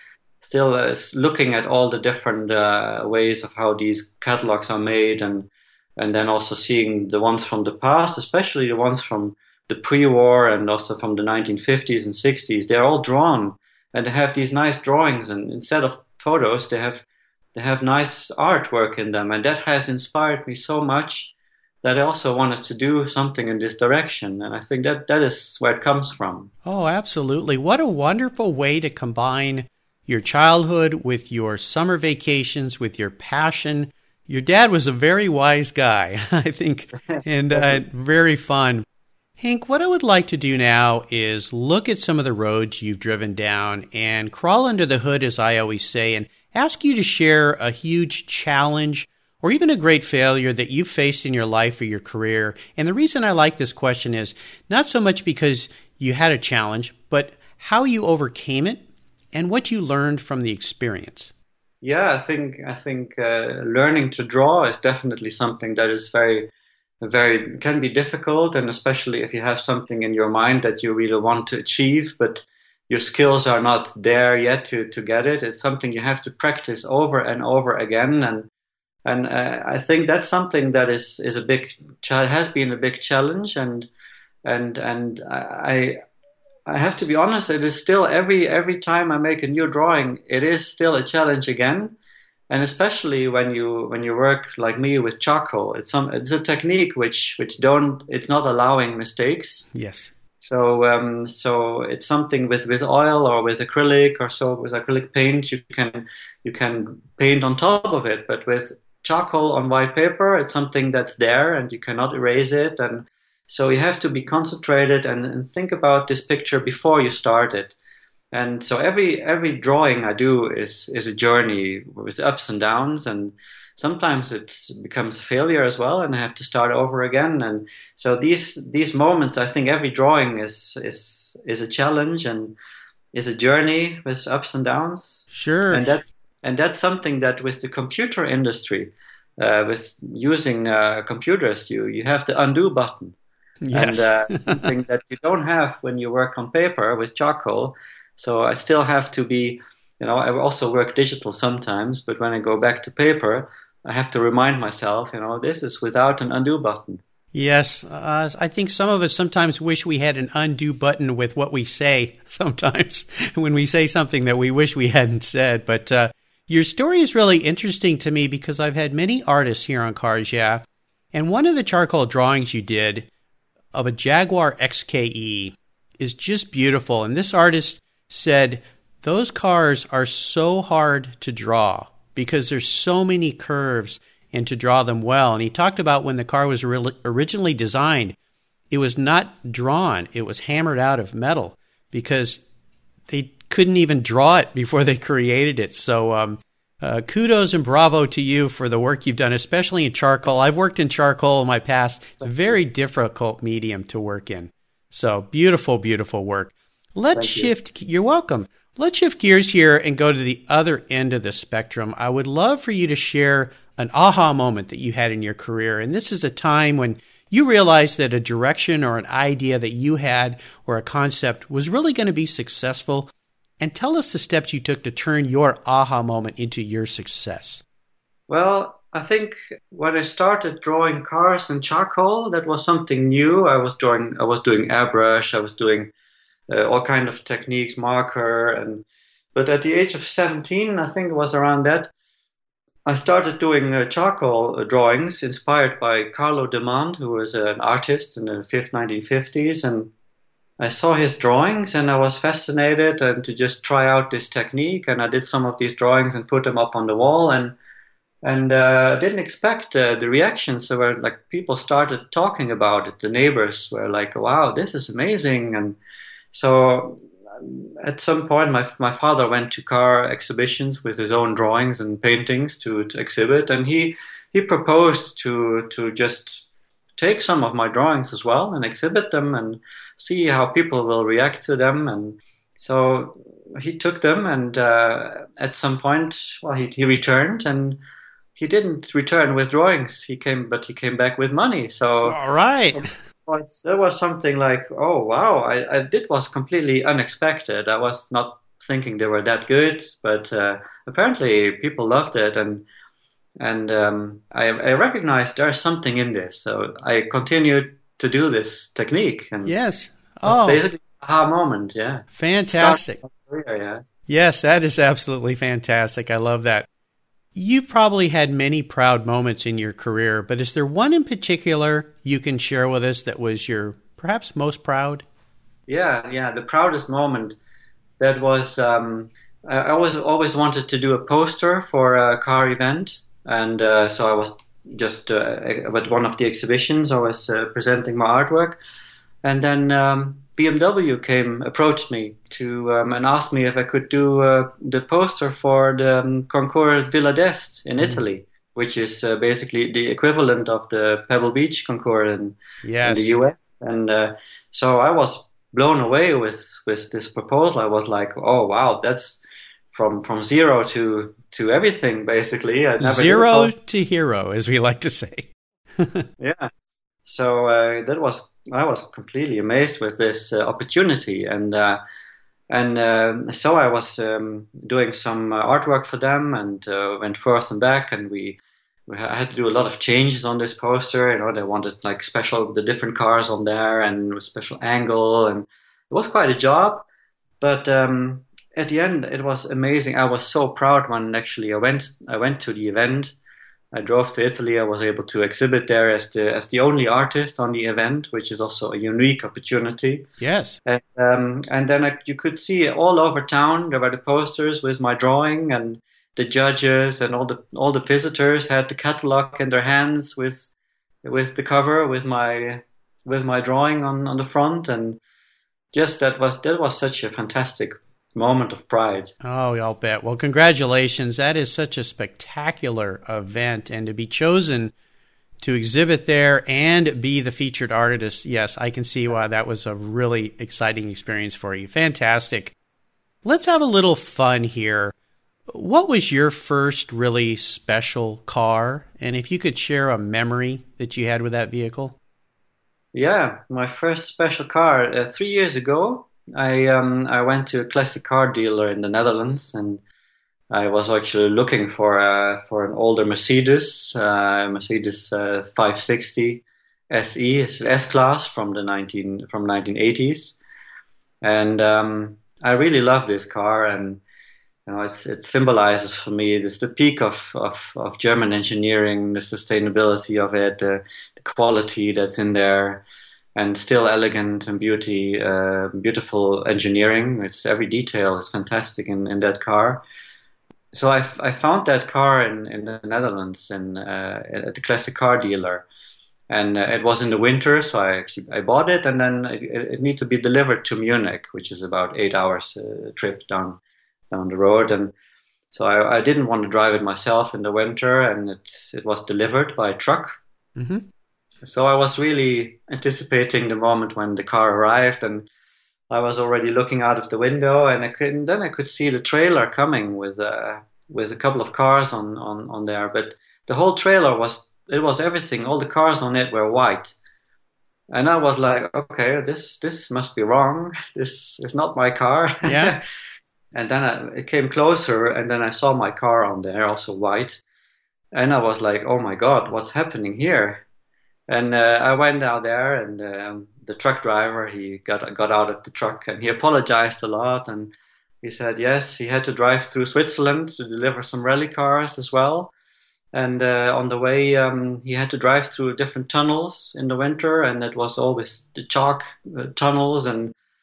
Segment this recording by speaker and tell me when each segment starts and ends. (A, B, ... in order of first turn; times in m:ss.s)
0:00.4-0:26.5 A
0:26.6-0:38.8 B
0:37.1-0:37.8 A
0:39.4-1:01.3 B
1:01.8-1:06.5 A
1:07.0-1:18.5 A
1:19.1-1:23.9 A
1:24.5-1:26.0 A
1:26.7-1:32.0 A
1:32.5-1:39.7 A
1:39.7-1:40.1 B
1:40.4-1:57.8 A
1:58.3-2:12.5 A
2:13.1-2:23.2 A
2:15.3-2:16.0 B
2:23.6-2:24.7 B
2:23.7-2:37.0 A
2:37.3-2:53.1 B
2:53.7-3:08.2 B
3:08.7-3:12.4 B
3:13.1-3:47.6 B
3:22.2-3:22.6 A
3:27.2-3:27.5 A
3:48.3-3:55.9 A
3:56.5-4:01.9 A
4:02.8-4:09.9 A
4:10.6-4:17.6 A
4:18.2-4:25.8 A
4:26.3-4:36.4 A
4:37.0-4:47.8 A
4:48.4-4:52.2 A
4:52.0-4:52.9 B
4:52.8-5:02.7 A
5:03.4-5:09.5 A
5:09.4-5:10.6 B
5:10.3-5:13.8 A
5:12.1-5:13.0 B
5:14.1-5:16.7 B
5:17.4-5:25.0 B
5:25.7-5:27.4 A
5:28.0-5:38.6 A
5:39.2-5:59.2 A
5:52.6-5:53.2 B
5:59.7-6:03.5 A
6:02.8-6:06.1 B
6:06.2-6:06.5 A
6:07.1-6:11.8 A
6:12.5-6:26.8 A
6:27.4-6:33.2 A
6:33.7-6:40.1 A
6:40.2-6:40.6 B
6:40.7-6:50.5 A
6:51.0-6:55.0 A
6:55.7-6:59.1 A
6:59.2-7:04.7 B
7:05.4-7:12.6 B
7:13.2-7:14.9 B
7:15.5-7:22.0 B
7:22.9-7:29.8 A
7:30.5-7:40.4 A
7:41.2-7:44.0 A
7:44.7-7:52.8 A
7:53.4-7:59.8 A
8:00.7-8:05.7 A
8:06.3-8:13.6 A
8:14.1-8:14.9 A
8:15.5-8:20.2 A
8:20.6-8:20.8 B
8:21.4-8:25.3 A
8:25.9-8:37.0 A
8:37.9-8:42.8 A
8:42.4-8:42.7 B
8:43.5-8:47.4 A
8:48.1-8:50.6 A
8:51.3-9:02.5 A
9:03.1-9:10.3 A